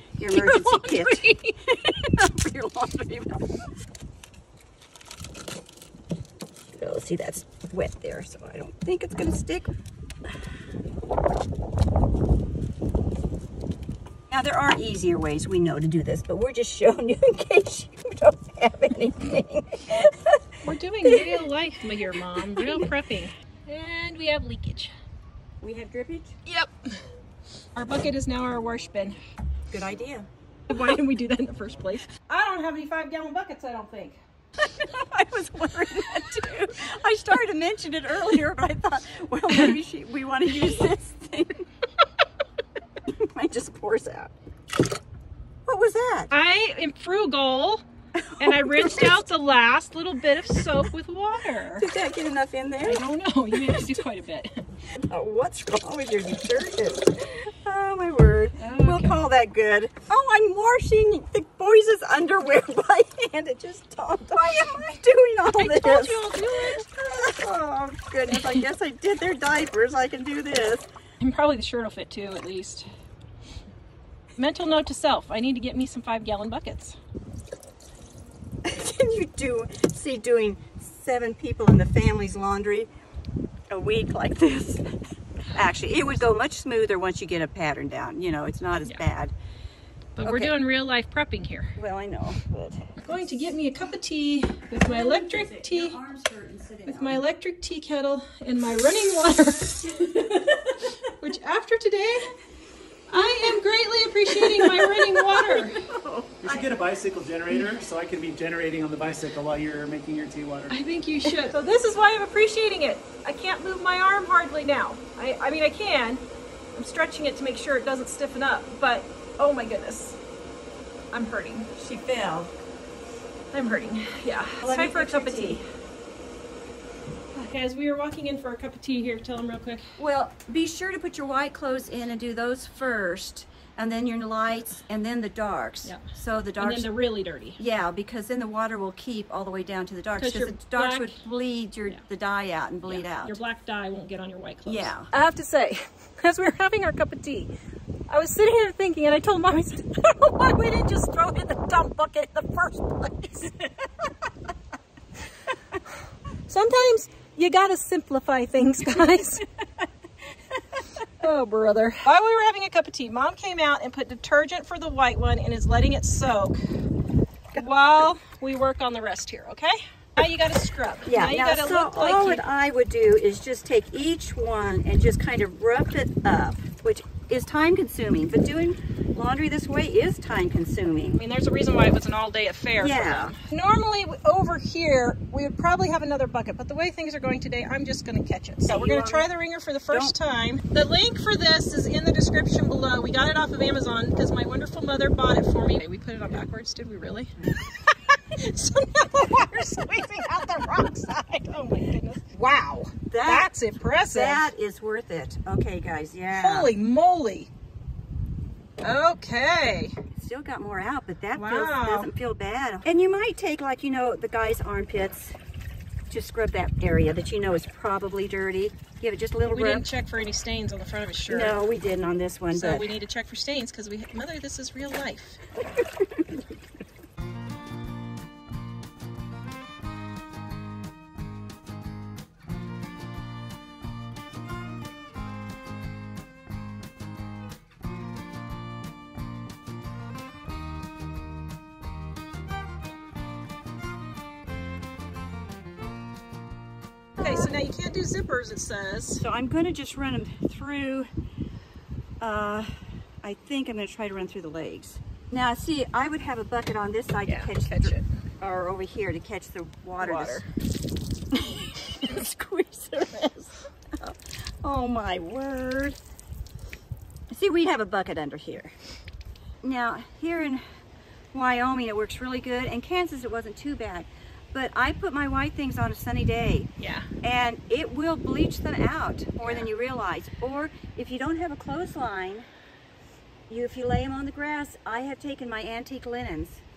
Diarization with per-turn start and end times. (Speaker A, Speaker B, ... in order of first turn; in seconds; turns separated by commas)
Speaker A: 0.2-3.5, Speaker B: 0.2-1.6, Speaker A: 6.7-9.7, Speaker A: 14.3-20.4, Speaker B: 20.6-24.9, Speaker A: 21.0-21.4, Speaker A: 22.2-22.9, Speaker A: 25.6-26.4, Speaker B: 26.4-27.0, Speaker B: 27.8-29.2, Speaker A: 29.7-30.3, Speaker B: 30.7-34.2, Speaker A: 34.6-41.6, Speaker A: 43.1-44.3, Speaker A: 45.6-46.3, Speaker B: 46.3-47.8, Speaker A: 48.1-49.1, Speaker B: 48.4-51.9, Speaker A: 51.7-53.9, Speaker B: 52.8-54.6, Speaker A: 55.1-70.8, Speaker B: 58.6-59.2, Speaker B: 65.5-66.8, Speaker B: 71.2-72.9, Speaker B: 74.4-77.0, Speaker A: 78.6-82.9, Speaker A: 83.7-84.8, Speaker A: 85.5-89.3, Speaker B: 90.2-91.7, Speaker A: 90.2-90.5, Speaker A: 91.8-92.8, Speaker B: 93.0-96.0, Speaker A: 94.8-97.2, Speaker B: 96.9-102.3, Speaker A: 99.9-100.9, Speaker B: 103.1-105.8, Speaker A: 103.1-103.6, Speaker A: 104.3-106.7, Speaker C: 106.4-110.7, Speaker B: 110.7-116.2, Speaker B: 116.7-120.2, Speaker B: 121.1-121.7, Speaker A: 121.7-122.5, Speaker B: 123.5-125.6, Speaker A: 124.6-125.6, Speaker B: 127.3-129.8, Speaker A: 130.0-136.9, Speaker B: 136.6-137.6, Speaker A: 137.6-143.4, Speaker B: 140.2-141.2, Speaker B: 142.9-147.5, Speaker A: 144.7-145.1, Speaker B: 148.1-153.7, Speaker B: 156.5-159.4, Speaker B: 161.2-166.6, Speaker B: 167.5-172.4, Speaker A: 171.1-181.2, Speaker B: 181.1-204.5, Speaker A: 182.8-183.3, Speaker A: 188.7-189.3, Speaker A: 189.9-190.1, Speaker A: 203.1-203.5, Speaker A: 204.1-206.7, Speaker B: 206.4-207.5, Speaker B: 208.8-209.9, Speaker A: 210.1-215.4, Speaker B: 211.3-212.1, Speaker A: 216.1-219.8, Speaker B: 219.5-221.6, Speaker A: 221.3-222.9, Speaker B: 222.5-225.4, Speaker A: 225.8-226.4, Speaker B: 247.2-249.2, Speaker A: 249.2-251.1, Speaker A: 252.2-252.7, Speaker A: 253.2-260.5, Speaker B: 257.3-258.0, Speaker B: 260.0-260.5, Speaker A: 261.3-266.0, Speaker A: 267.3-268.7, Speaker A: 269.6-270.6, Speaker A: 271.3-276.7, Speaker B: 276.8-277.1, Speaker A: 277.2-282.5, Speaker B: 279.4-279.7, Speaker A: 283.5-286.6